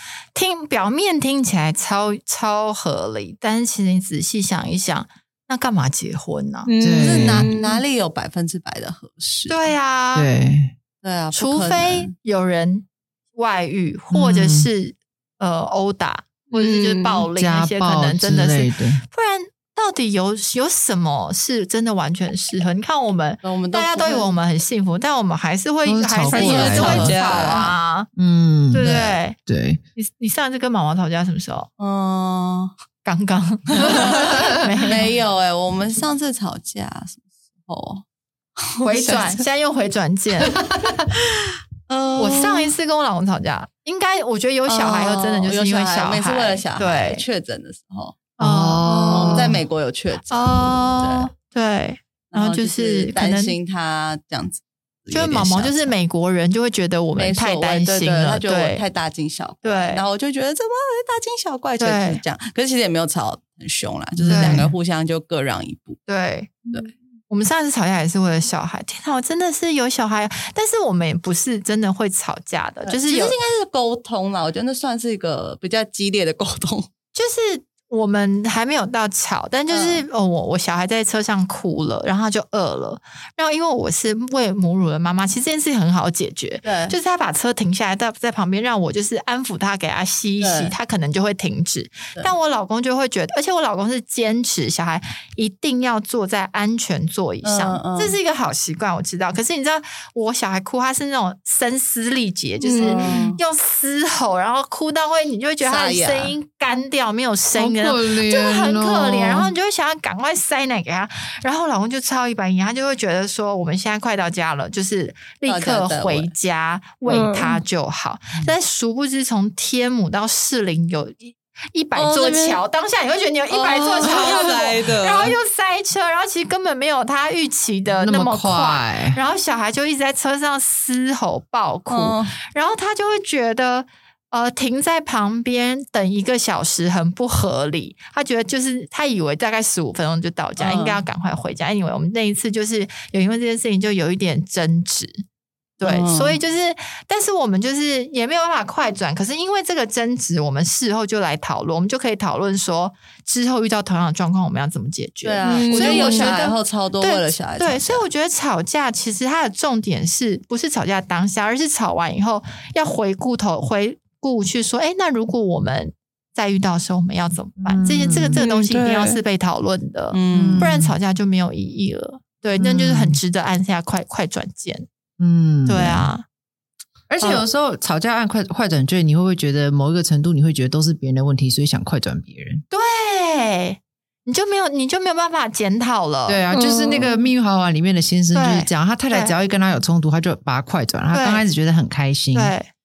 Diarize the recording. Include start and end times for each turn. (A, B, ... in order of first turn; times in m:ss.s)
0:00.3-0:06.7 A
0:06.6-0:07.8 B
0:06.8-0:07.5 C
0:07.0-0:09.7 D
0:09.5-0:10.3 A
0:10.1-0:10.7 C
0:11.0-0:12.1 D
0:11.3-0:28.1 A
0:14.1-0:14.7 C
0:16.5-0:17.2 B
0:17.3-0:19.0 C
0:23.4-0:24.3 D
0:25.8-0:27.1 C
0:26.3-0:27.6 B
0:26.3-0:27.7 D
0:28.2-0:29.8 C
0:28.7-0:29.4 A
0:30.0-0:31.7 A
0:31.8-0:32.7 D
0:33.0-0:35.1 A
0:33.8-0:38.0 D
0:34.1-0:34.4 C
0:38.6-0:39.4 D
0:38.8-0:40.6 A
0:41.9-0:42.7 D
0:42.2-0:47.2 A
0:44.6-0:48.2 D
0:48.4-0:49.6 A
0:48.4-0:49.6 C
0:49.1-0:51.3 D
0:50.3-0:53.6 A
0:52.3-0:55.9 D
0:55.1-0:58.8 A
0:57.2-1:06.0 D
0:59.6-1:00.0 A
1:01.8-1:02.2 A
1:04.2-1:04.7 C
1:04.3-1:04.7 A
1:06.1-1:06.7 A
1:07.3-1:13.4 A
1:12.8-1:16.9 D
1:17.1-2:25.2 A
1:19.7-1:20.0 D
1:26.6-1:26.9 D
1:30.4-1:30.7 D
1:37.4-1:38.2 D
1:42.6-1:43.3 B
1:42.8-1:43.4 D
1:45.6-1:46.3 D
1:47.5-1:49.5 C
1:55.4-1:56.3 D
1:57.0-1:57.6 B
2:02.0-2:02.6 D
2:03.5-2:05.3 D
2:03.9-2:05.0 B
2:08.0-2:09.2 C
2:11.9-2:12.3 D
2:20.6-2:21.0 D
2:25.8-2:54.9 A
2:25.8-2:26.4 D
2:35.2-2:38.0 D
2:35.4-2:36.4 B
2:47.6-2:48.4 C
2:48.4-2:49.2 B
2:50.1-2:50.7 D
2:50.3-2:50.9 C
2:52.6-2:53.2 C
2:55.2-2:56.1 C
2:55.6-2:56.2 A
2:57.1-3:02.6 C
3:02.7-3:06.4 A
3:06.3-3:12.5 C
3:06.5-3:07.2 B
3:08.3-3:09.3 A
3:11.1-3:11.4 A
3:12.3-3:12.7 A